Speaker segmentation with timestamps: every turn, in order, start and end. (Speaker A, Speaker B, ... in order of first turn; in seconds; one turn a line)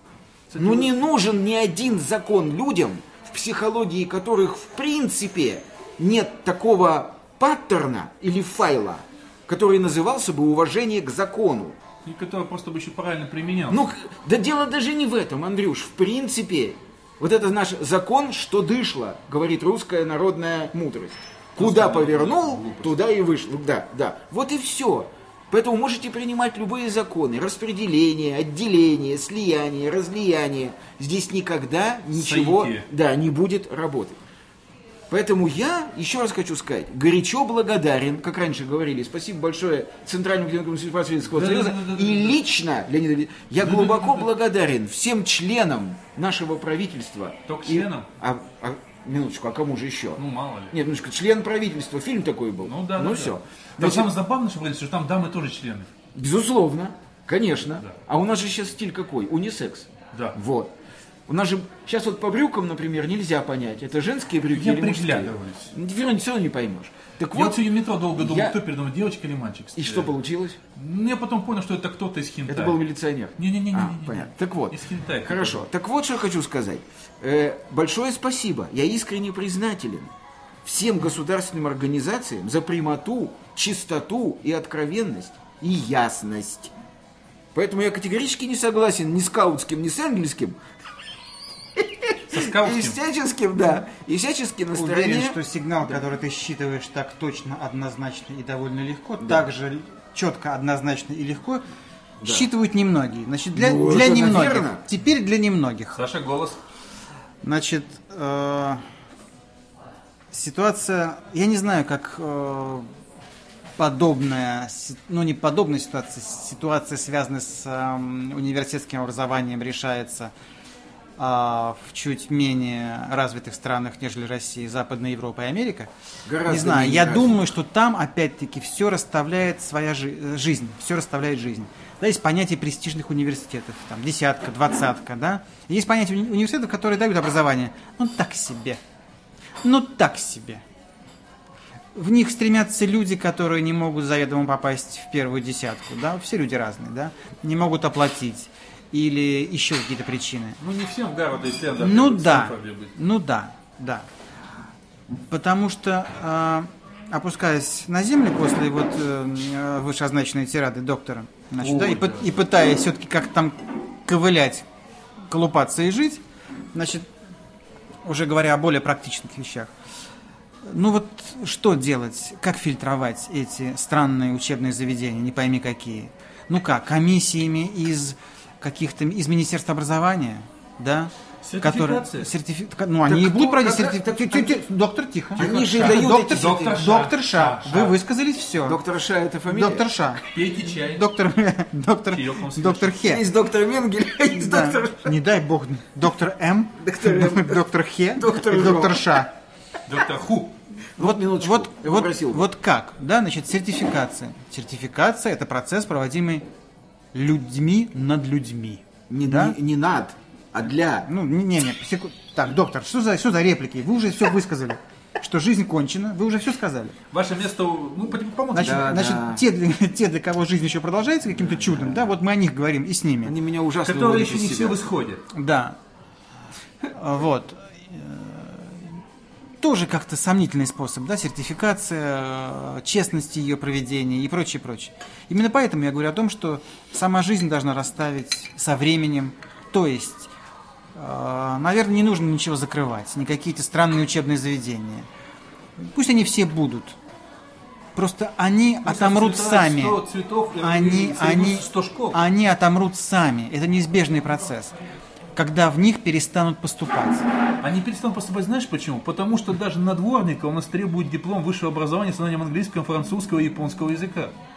Speaker A: 0.5-1.0
Speaker B: 0.6-11.8
Speaker A: 12.0-13.9
Speaker B: 13.7-34.2
Speaker A: 21.6-23.0
Speaker A: 32.1-32.9
Speaker B: 35.1-54.1
Speaker A: 41.3-42.4
Speaker A: 43.6-44.3
Speaker A: 47.5-48.1
Speaker A: 50.2-50.8
Speaker A: 52.6-55.9
Speaker B: 56.1-60.7
Speaker B: 61.3-68.6
Speaker A: 64.5-65.7
Speaker A: 67.3-70.1
Speaker B: 69.8-70.6
Speaker A: 70.7-72.8
Speaker B: 72.5-80.1
Speaker A: 73.4-75.7
Speaker B: 80.6-86.7
Speaker B: 87.5-90.6
Speaker B: 91.8-95.4
Speaker A: 92.3-93.0
Speaker C: 94.7-101.6
Speaker C: 102.2-106.0
Speaker B: 103.5-104.8
Speaker A: 106.0-106.6
Speaker C: 107.4-108.8
Speaker C: 110.3-112.9
Speaker C: 113.8-120.3
Speaker C: 121.2-125.9
Speaker B: 126.3-127.4
Speaker C: 126.4-138.8
Speaker C: 139.6-140.6
Speaker C: 141.9-150.6
Speaker A: 150.6-152.9
Speaker C: 151.8-154.1
Speaker C: 155.3-164.7
Speaker A: 161.6-162.4
Speaker C: 165.3-166.2
Speaker C: 166.7-167.1
Speaker C: 168.0-169.7
Speaker C: 170.6-188.8
Speaker A: 181.4-182.3
Speaker B: 183.1-184.6
Speaker B: 185.4-186.9
Speaker A: 185.4-188.0
Speaker B: 188.6-189.9
Speaker C: 189.5-193.3
Speaker A: 190.3-191.1
Speaker A: 192.1-193.0
Speaker B: 193.1-195.1
Speaker C: 194.3-199.3
Speaker B: 196.8-197.6
Speaker B: 198.2-199.3
Speaker A: 199.9-200.6
Speaker B: 201.0-202.5
Speaker C: 201.0-206.4
Speaker C: 207.1-209.6
Speaker B: 209.1-211.1
Speaker C: 211.1-217.0
Speaker A: 217.1-219.1
Speaker C: 218.5-223.3
Speaker B: 218.6-219.4
Speaker B: 221.5-222.1
Speaker B: 223.2-224.8
Speaker A: 223.8-225.2
Speaker C: 225.3-225.8
Speaker C: 226.9-229.0
Speaker C: 229.6-240.3
Speaker C: 240.9-245.1
Speaker C: 245.8-247.0
Speaker C: 247.9-250.0
Speaker A: 248.8-252.2
Speaker C: 250.6-254.8
Speaker C: 255.3-257.3
Speaker A: 257.6-264.3